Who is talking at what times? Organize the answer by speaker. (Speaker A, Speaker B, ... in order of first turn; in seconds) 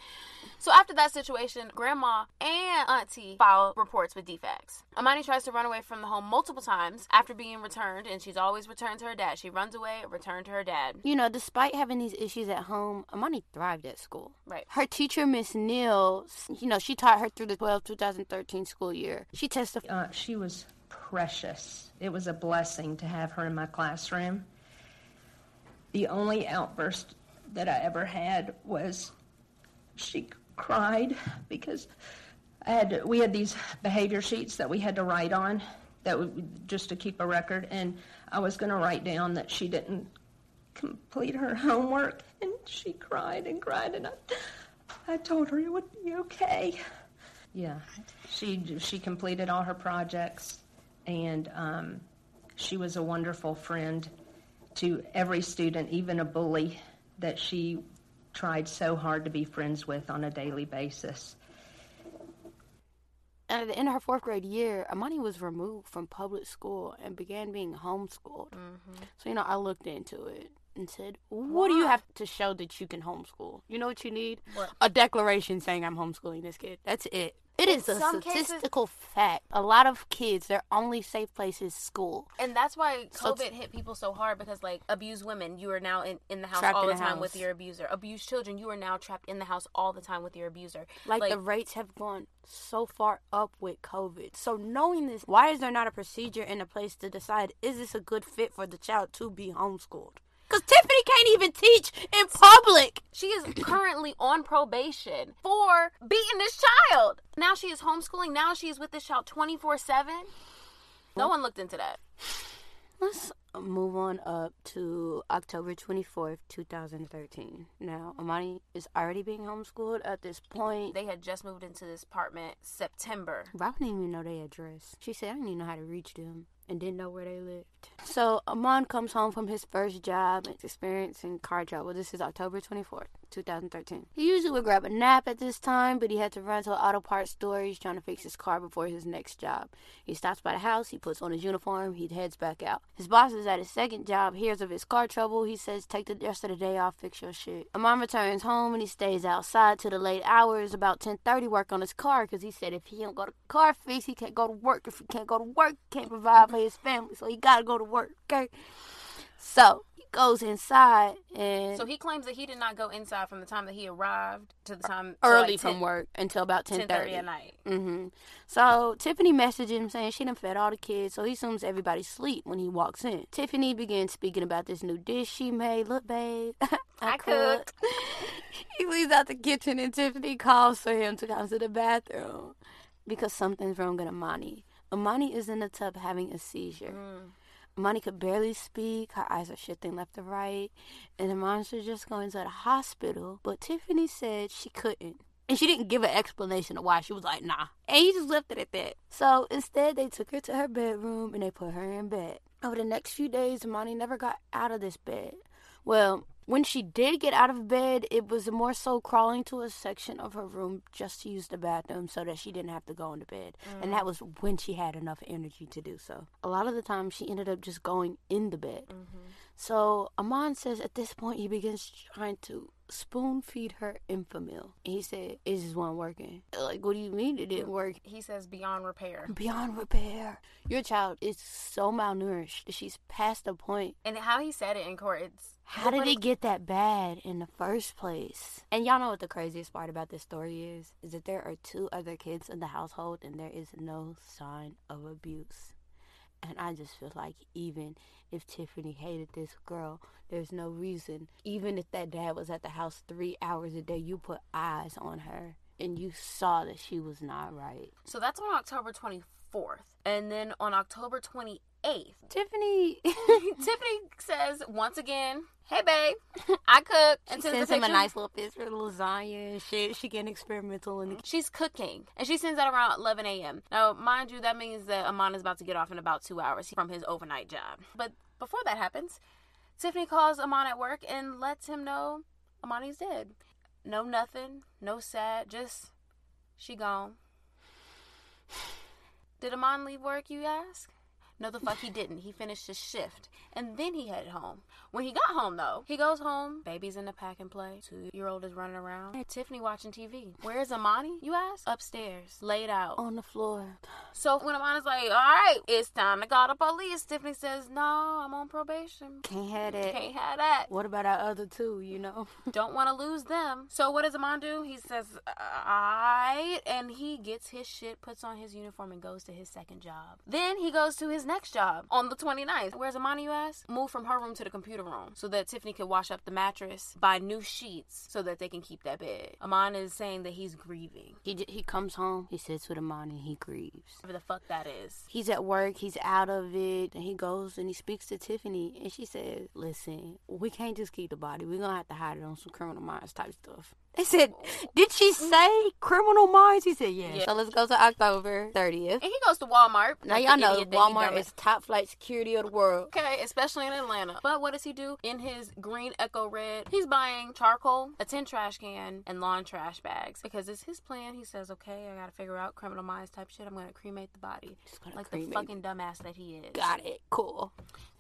Speaker A: 0.6-11.0, 68.5-69.1, 71.5-72.0, 77.7-78.7, 82.4-91.4, 103.1-110.3, 111.2-112.0, 120.9-123.5, 161.7-165.8, 166.7-167.6, 177.0-177.7, 186.9-187.3, 213.7-214.1, 218.9-219.4, 227.6-229.3, 234.0-236.2, 258.1-262.2, 263.2-268.1, 271.1-279.2, 279.8-285.9, 286.6-287.2, 289.4-303.0, 304.1-310.7, 312.5-331.2, 334.0-335.1, 344.3-344.7, 349.0-351.3, 352.9-366.7
Speaker B: 11.0-19.8, 63.5-68.5, 69.1-82.3, 83.2-83.5, 86.5-87.4, 91.1-103.0, 113.0-121.0, 123.5-161.9, 165.2-187.0, 187.8-218.9, 219.6-228.0, 229.3-234.0, 235.7-245.8, 246.4-257.9, 262.3-263.5, 267.3-271.2, 303.0-303.8, 309.2-310.0, 310.7-312.4, 331.2-334.0, 335.1-349.0, 350.0-352.9, 364.7-365.5, 366.5-367.5
Speaker C: 19.8-24.5, 25.9-29.1, 30.0-31.9, 32.6-40.1, 40.8-44.2, 45.1-46.8, 47.5-52.1, 52.6-54.1, 54.8-61.4